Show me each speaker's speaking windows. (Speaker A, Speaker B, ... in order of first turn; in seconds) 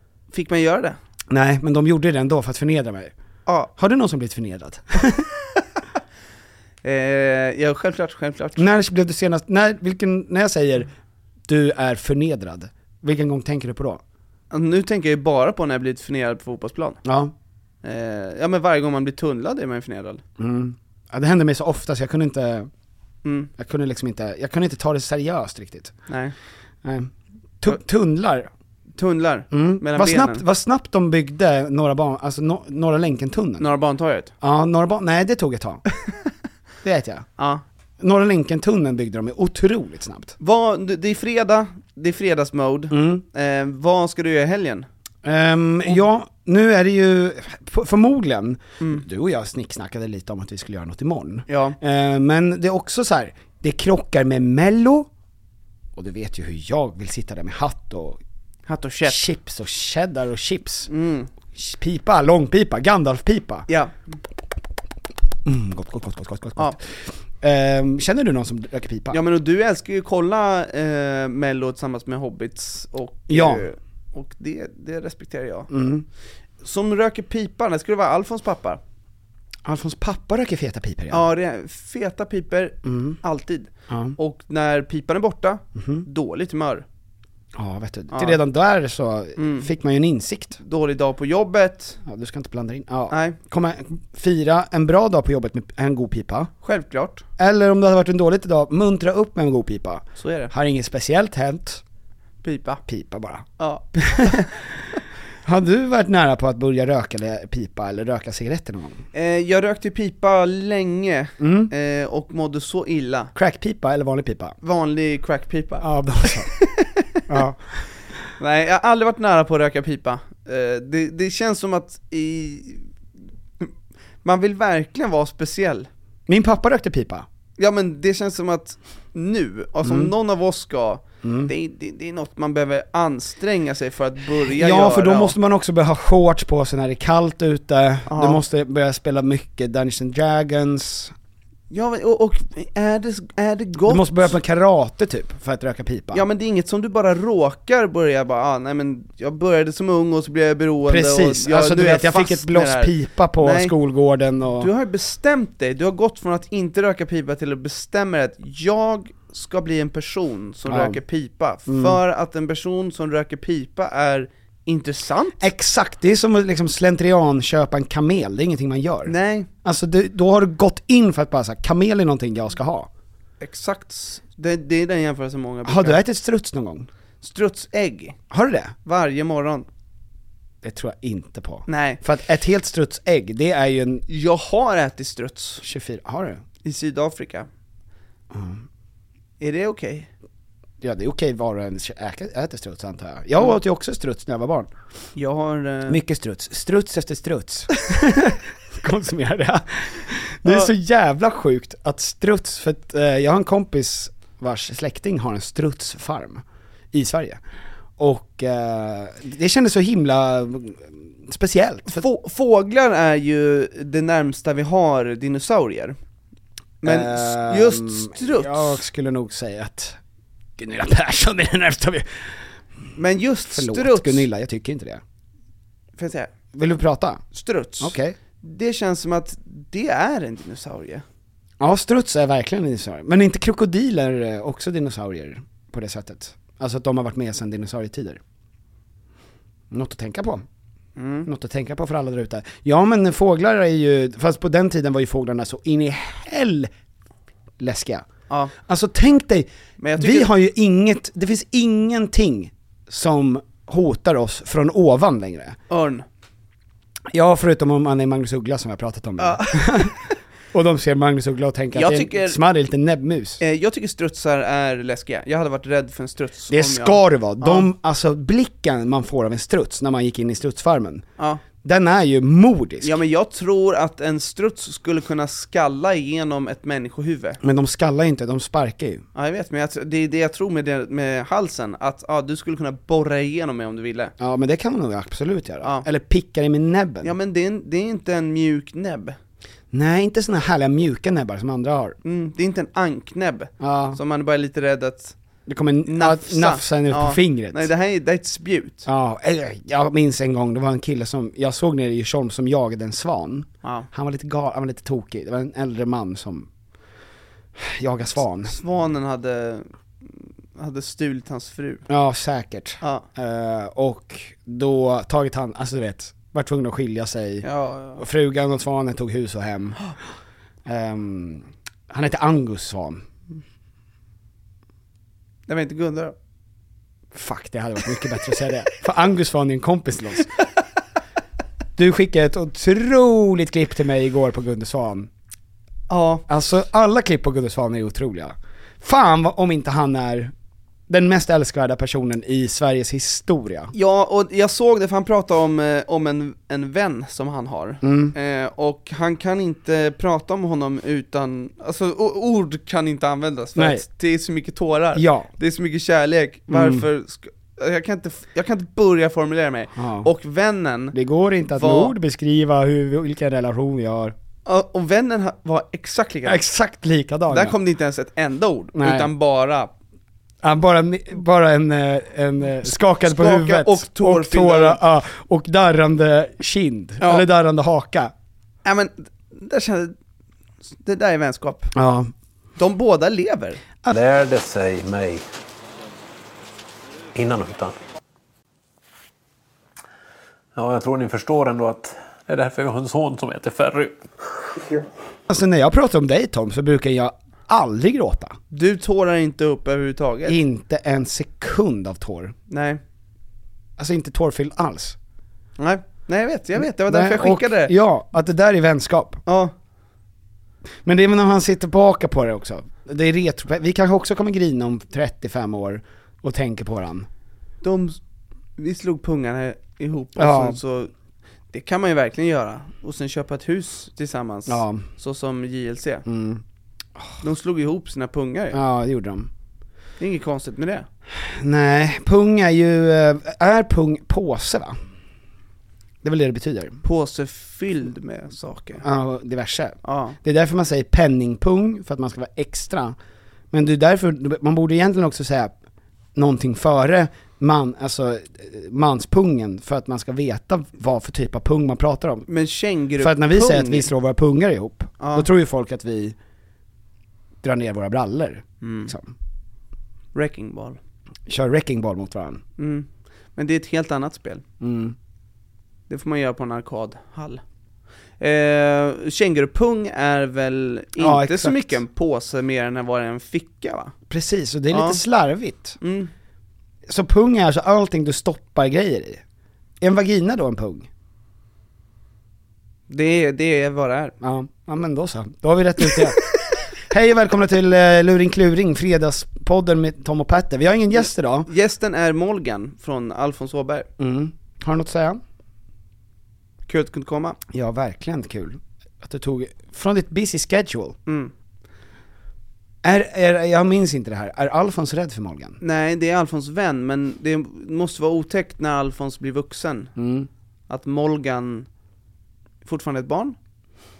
Speaker A: 0.3-1.0, 3.5-3.7, 6.8-8.7, 14.5-17.0, 17.8-20.2, 23.2-23.5, 26.1-26.3, 29.0-30.4, 33.6-34.3, 37.4-37.6, 40.4-44.9, 51.5-51.8, 58.7-59.2, 60.9-61.3, 63.7-63.9, 69.1-75.7, 76.6-78.8, 81.1-86.8, 88.1-88.4, 89.4-89.7, 90.6-92.0, 93.1-93.4, 96.6-97.2, 100.2-100.5, 102.4-102.8, 103.6-104.5, 109.1-113.3, 114.6-117.2, 118.4-122.9, 124.2-125.9, 127.6-135.3, 138.1-138.4, 141.7-144.3, 146.1-153.7, 154.6-165.4, 169.1-169.5, 173.4-176.0, 177.2-178.2, 178.8-179.7, 181.7-182.0, 184.1-185.6, 186.6-187.5, 189.4-190.1, 195.2-196.0, 211.9-215.9, 216.8-218.8, 222.9-224.2, 226.0-226.3, 227.3-231.0, 240.9-241.3, 249.8-250.3, 255.7-256.1, 259.2-259.9, 261.7-262.4, 263.4-267.7, 272.8-277.4, 279.1-284.1, 287.0-289.2, 292.0-295.1, 295.9-298.9, 308.4-311.8, 317.4-318.0, 325.5-326.1, 335.9-336.2, 343.7-361.0, 361.6-361.9, 364.4-366.4, 367.3-369.7, 373.0-374.8, 377.0-377.2, 378.6-379.9, 380.7-381.7, 382.6-383.6, 398.5-400.4, 402.5-402.8, 405.6-407.7, 409.3-409.5, 417.6-418.0, 418.6-420.9, 421.5-426.1, 427.2-428.6, 430.0-430.9, 436.8-438.8, 439.8-440.2, 452.3-453.9, 455.0-455.3, 458.6-458.9, 460.1-460.8, 462.6-464.4, 465.9-467.4, 468.2-473.9, 474.7-475.0, 475.8-476.1, 482.9-484.1, 490.9-493.9, 496.7-497.4, 501.1-501.3, 505.6-509.9, 510.7-511.7, 512.6-513.4
Speaker B: 1.3-3.1, 3.8-5.3, 8.6-10.9, 11.5-14.0, 17.0-17.3, 20.4-22.7, 23.6-25.9, 26.8-28.5, 29.5-33.7, 34.4-35.8, 36.8-37.2, 38.0-40.3, 42.9-43.2, 45.2-55.1, 56.0-58.2, 59.0-60.9, 61.5-63.7, 65.4-69.2, 73.3-73.6, 75.7-76.0, 79.6-81.3, 82.8-83.2, 83.9-84.2, 85.8-86.0, 87.5-90.6, 92.0-96.5, 97.4-101.8, 102.9-104.5, 105.4-109.0, 111.4-111.7, 113.3-114.5, 115.8-116.5, 117.3-117.6, 126.3-127.2, 129.8-130.1, 131.2-131.5, 134.5-141.1, 143.8-146.2, 150.9-154.7, 160.7-161.0, 161.7-162.0, 165.4-172.9, 175.6-176.9, 178.3-178.7, 180.6-184.1, 185.6-186.4, 188.3-188.6, 190.8-194.7, 195.9-207.4, 208.0-212.0, 216.8-220.0, 220.6-222.3, 223.5-225.0, 226.5-227.2, 227.8-228.1, 231.6-238.2, 239.7-240.4, 241.2-246.7, 247.6-248.1, 248.7-255.6, 257.1-259.9, 260.5-263.4, 266.5-271.1, 271.6-273.0, 277.4-279.0, 284.2-287.1, 289.7-291.9, 293.6-294.0, 295.5-297.7, 298.9-306.5, 307.6-308.5, 311.9-317.5, 318.0-319.8, 320.6-323.0, 327.1-330.3, 331.8-335.1, 336.3-340.3, 340.9-343.7, 347.8-348.1, 353.6-353.8, 354.9-355.3, 356.5-356.9, 359.8-360.1, 360.9-364.1, 366.2-367.6, 368.8-369.1, 370.4-378.1, 381.7-382.1, 395.3-398.4, 400.2-402.3, 403.8-405.0, 406.9-409.2, 410.8-417.1, 420.1-420.6, 424.5-424.9, 426.1-426.4, 428.5-429.3, 431.1-434.8, 436.0-436.8, 438.8-442.9, 443.5-445.5, 446.1-452.3, 453.0-456.1, 457.4-459.1, 461.3-462.4, 464.6-464.9, 471.0-471.8, 474.1-475.8, 476.9-479.2, 479.8-480.9, 484.2-486.2, 486.8-491.5, 494.0-495.2, 497.5-501.0, 502.8-505.6, 510.0-510.3
Speaker C: 383.9-385.3, 387.1-387.8, 390.5-394.0